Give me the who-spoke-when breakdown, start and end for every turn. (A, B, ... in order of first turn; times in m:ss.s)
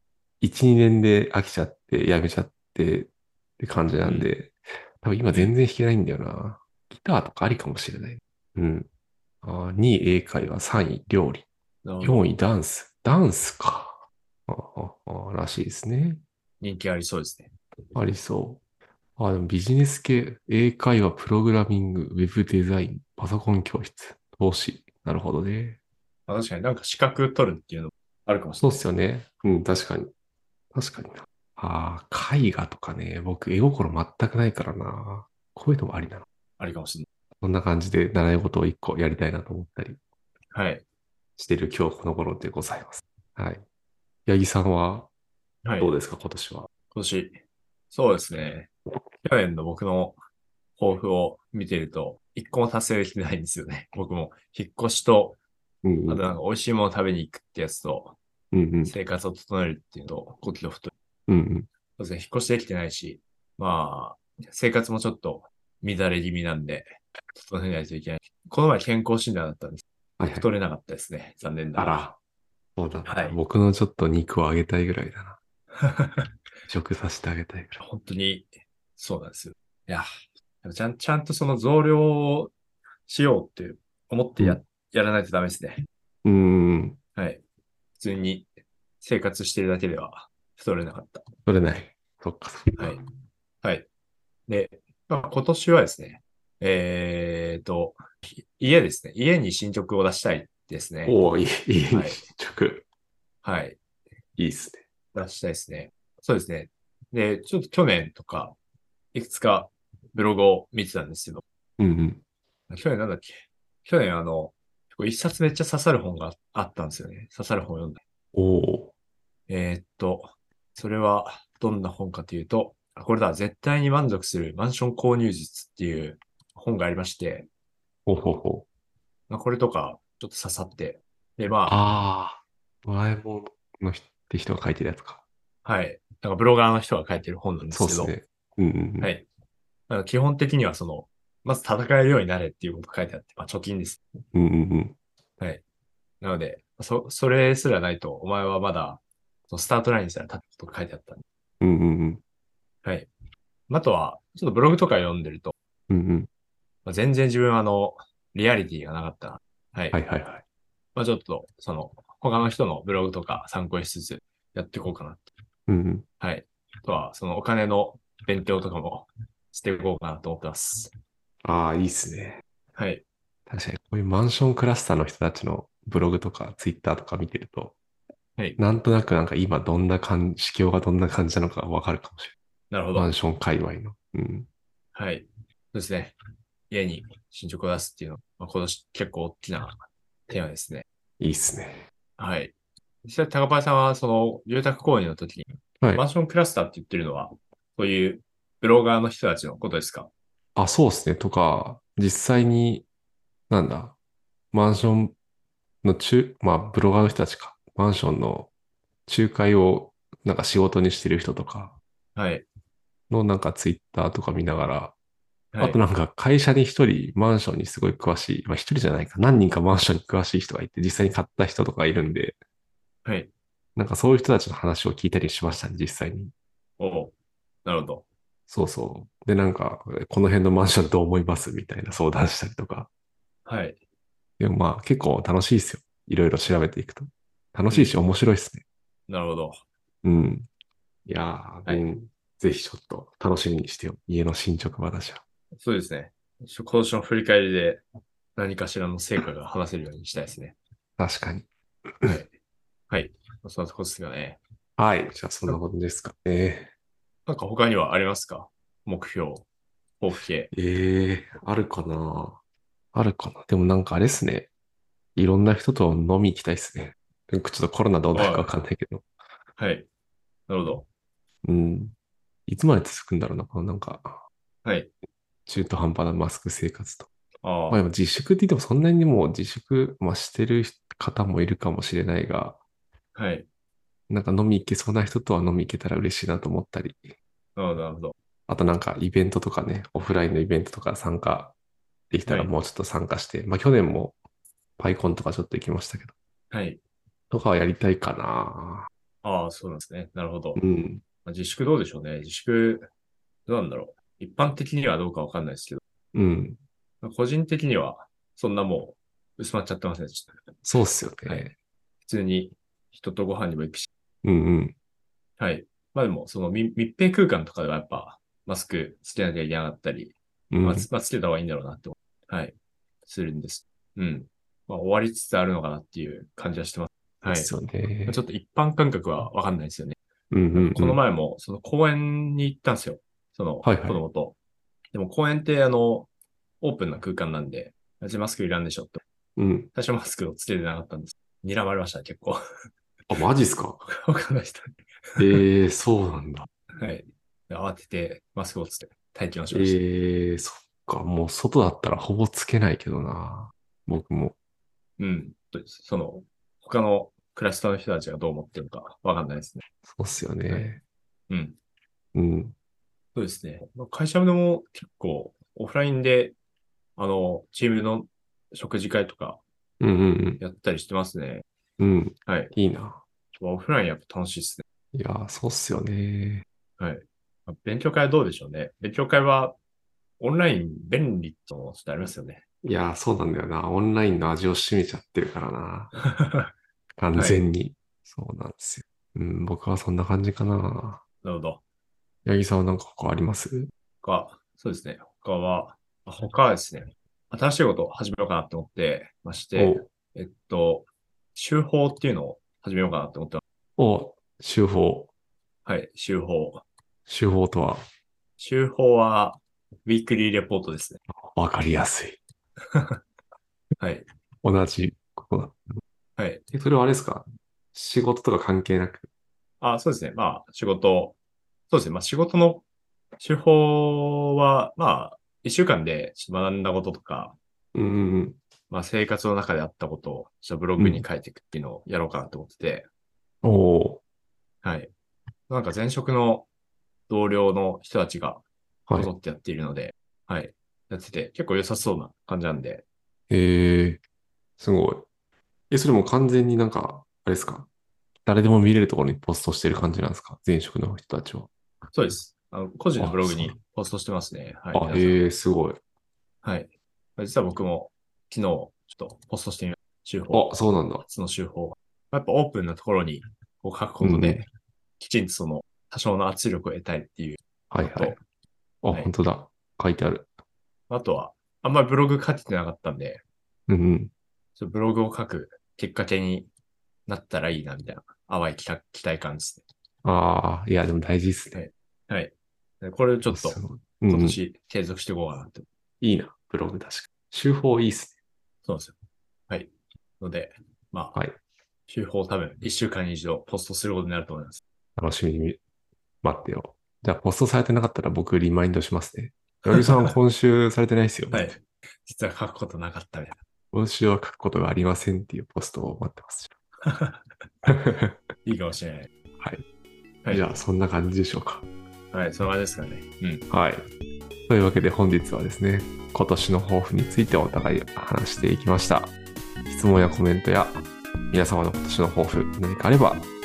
0:00.4-0:08.9 A
0:04.0-0:04.3 B
0:09.4-0:11.5 A
0:11.8-0:12.3 B
0:12.0-0:16.2 A
0:16.6-0:17.5 B
0:17.9-0:18.6 A
0:19.2-0:25.8 A
0:26.3-0:28.8 B
0:28.6-0:30.1 A
0:30.7-0:36.2 A
0:36.6-0:37.1 B
0:37.4-0:40.0 A
0:40.5-0:40.8 B
0:41.4-0:43.6 A
0:44.3-0:45.1 A
0:45.6-0:45.9 B
0:45.8-0:46.7 A
0:46.9-0:47.4 B
0:47.9-0:48.7 B
0:49.2-0:50.2 B
0:50.8-0:55.4 B
0:55.8-0:56.2 A
0:56.1-0:58.2 B
0:58.5-0:58.9 A
0:58.9-1:00.9 B
1:01.3-1:01.7 A
1:02.0-1:12.0 B
1:10.2-1:10.5 A
1:11.8-1:12.2 A
1:12.8-1:15.4 A
1:13.0-1:13.4 B
1:15.8-1:16.3 B
1:16.7-1:17.8 A
1:17.8-1:20.1 B
1:20.6-1:22.5 B
1:23.1-1:25.9 B
1:26.2-1:27.0 A
1:27.2-1:27.4 B
1:28.0-1:28.5 B
1:29.0-1:31.3 B
1:31.5-1:33.0 A
1:33.6-1:33.9 B
1:34.5-1:41.2 B
1:41.0-1:42.8 A
1:41.9-1:42.2 B
1:43.4-1:43.8 B
1:44.4-1:44.8 A
1:45.1-1:48.6 B
1:49.1-1:51.4 B
1:51.8-1:52.2 A
1:52.7-1:58.0 B
1:58.3-1:58.9 A
1:59.5-2:07.5 B
2:08.1-2:08.7 A
2:09.3-2:11.8 B
2:11.7-2:15.2 A
2:15.6-2:18.1 B
2:17.7-2:19.2 A
2:19.0-2:19.2 B
2:19.9-2:24.0 B
2:24.3-2:25.0 A
2:26.2-2:31.2 B
2:31.6-2:32.2 A
2:32.8-2:33.1 B
2:33.7-2:35.5 B
2:35.9-2:36.3 A
2:36.8-2:40.0 B
2:39.9-2:40.4 A
2:41.0-2:45.2 B
2:45.7-2:46.1 A
2:46.2-2:50.9 B
2:51.4-2:52.4 A
2:52.8-2:53.0 B
2:53.5-2:57.8 A
2:58.6-3:02.3 A
3:02.7-3:03.1 B
3:03.0-3:04.5 A
3:05.0-3:06.2 B
3:06.7-3:10.8 B
3:11.2-3:11.9 A
3:12.2-3:12.5 B
3:13.0-3:20.1 B
3:20.6-3:22.9 A
3:23.5-3:24.0 A
3:24.5-3:25.2 A
3:25.8-3:28.5 A
3:29.1-3:31.8 A
3:32.2-3:32.4 B
3:33.1-3:35.0 A
3:35.5-3:35.8 B
3:35.6-3:42.4 A
3:43.0-3:43.3 B
3:43.8-3:46.3 A
3:46.8-3:48.0 B
3:48.5-3:52.9 A
3:53.5-3:53.8 B
3:54.4-3:58.6 A
3:57.7-3:58.0 B
3:59.1-3:59.6 B
4:00.0-4:00.5 A
4:01.1-4:05.2 A
4:05.6-4:07.8 B
4:08.4-4:10.6 B
4:11.0-4:11.5 A
4:12.1-4:12.3 B
4:12.9-4:14.4 B
4:14.8-4:16.7 A
4:17.3-4:19.4 B
4:20.0-4:20.5 B
4:20.5-4:22.4 A
4:22.9-4:24.5 A
4:25.2-4:29.0 A
4:28.1-4:28.5 B
4:29.6-4:29.9 B
4:30.5-4:30.8 B
4:31.4-4:31.9 A
4:32.5-4:34.2 A
4:34.6-4:34.9 B
4:35.5-4:37.1 A
4:37.4-4:37.8 B
4:37.7-4:42.6 A
4:43.2-4:43.5 B
4:44.1-4:47.1 A
4:47.6-4:48.2 B
4:48.5-4:51.6 A
4:52.1-4:54.2 A
4:54.8-4:56.1 A
4:56.5-4:56.8 B
4:57.3-4:58.9 A
4:59.2-5:00.6 B
5:00.6-5:01.0 A
5:01.2-5:02.9 B
5:03.5-5:05.8 B
5:06.1-5:06.6 A
5:07.0-5:10.3 B
5:10.7-5:11.5 A
5:12.1-5:13.9 B
5:14.2-5:14.8 A
5:15.4-5:22.5 B
5:20.5-5:20.9 A
5:23.0-5:27.5 B
5:27.2-5:28.2 A
5:28.1-5:30.0 B
5:30.3-5:31.0 A
5:30.5-5:34.4 B
5:33.6-5:34.0 A
5:34.9-5:36.1 B
5:36.6-5:39.0 B
5:39.4-5:39.7 A
5:39.7-5:42.4 B
5:43.1-5:43.8 A
5:43.9-5:45.4 B
5:45.2-5:46.5 A
5:46.8-5:49.8 B
5:49.5-5:54.4 A
5:55.0-5:59.6 B
5:59.9-6:00.8 A
6:01.3-6:01.6 B
6:02.2-6:02.6 A
6:03.2-6:06.4 B
6:07.0-6:09.4 B
6:09.8-6:10.4 A
6:10.4-6:11.4 B
6:11.8-6:13.0 A
6:13.4-6:14.6 B
6:14.9-6:16.4 A
6:16.8-6:19.6 B
6:20.2-6:22.4 B
6:22.6-6:26.0 A
6:26.0-6:26.5 B
6:27.0-6:31.0 A
6:27.2-6:27.4 B
6:31.2-6:31.6 B
6:32.3-6:33.7 A
6:34.0-6:43.4 B
6:39.6-6:39.9 A
6:43.8-6:45.1 A
6:45.6-6:46.6 B
6:47.1-6:47.8 A
6:48.4-6:51.0 B
6:51.2-6:52.2 A
6:52.6-6:53.0 B
6:53.8-6:54.1 B
6:54.4-6:55.8 A
6:56.2-6:56.4 B
6:56.5-6:59.1 A
6:59.6-7:01.2 B
7:01.7-7:02.6 B
7:03.2-7:07.4 B
7:07.7-7:08.4 A
7:08.7-7:12.9 B
7:10.8-7:11.0 A
7:13.4-7:14.0 A
7:14.6-7:14.9 B
7:15.5-7:16.5 B
7:17.1-7:18.4 B
7:19.0-7:22.8 B
7:23.3-7:24.0 A
7:24.6-7:25.1 A
7:25.7-7:27.7 A
7:28.2-7:31.5 A
7:31.9-7:35.2 B
7:33.0-7:33.6 A
7:34.7-7:35.8 A
7:36.4-7:40.5 B
7:40.3-7:41.0 A
7:41.0-7:44.4 B
7:44.0-7:44.4 A
7:45.0-7:48.2 B
7:47.7-7:48.2 A
7:48.8-7:50.3 A
7:50.9-7:53.2 B
7:53.7-7:54.1 A
7:54.6-7:56.5 B
7:57.1-7:59.6 B
8:00.0-8:01.6 A
8:01.5-8:05.7 B
8:03.3-8:04.4 A
8:06.0-8:08.2 A
8:08.6-8:08.9 B
8:09.5-8:11.2 B
8:11.9-8:14.6 B
8:15.0-8:15.6 A
8:16.2-8:21.5 A
8:19.7-8:20.1 B
8:21.3-8:23.4 B
8:23.7-8:26.5 A
8:26.8-8:27.4 B
8:27.7-8:28.2 A
8:28.4-8:29.1 B
8:30.3-8:31.6 A
8:32.1-8:33.4 B
8:33.5-8:33.8 A
8:34.5-8:39.1 A
8:39.7-8:43.3 A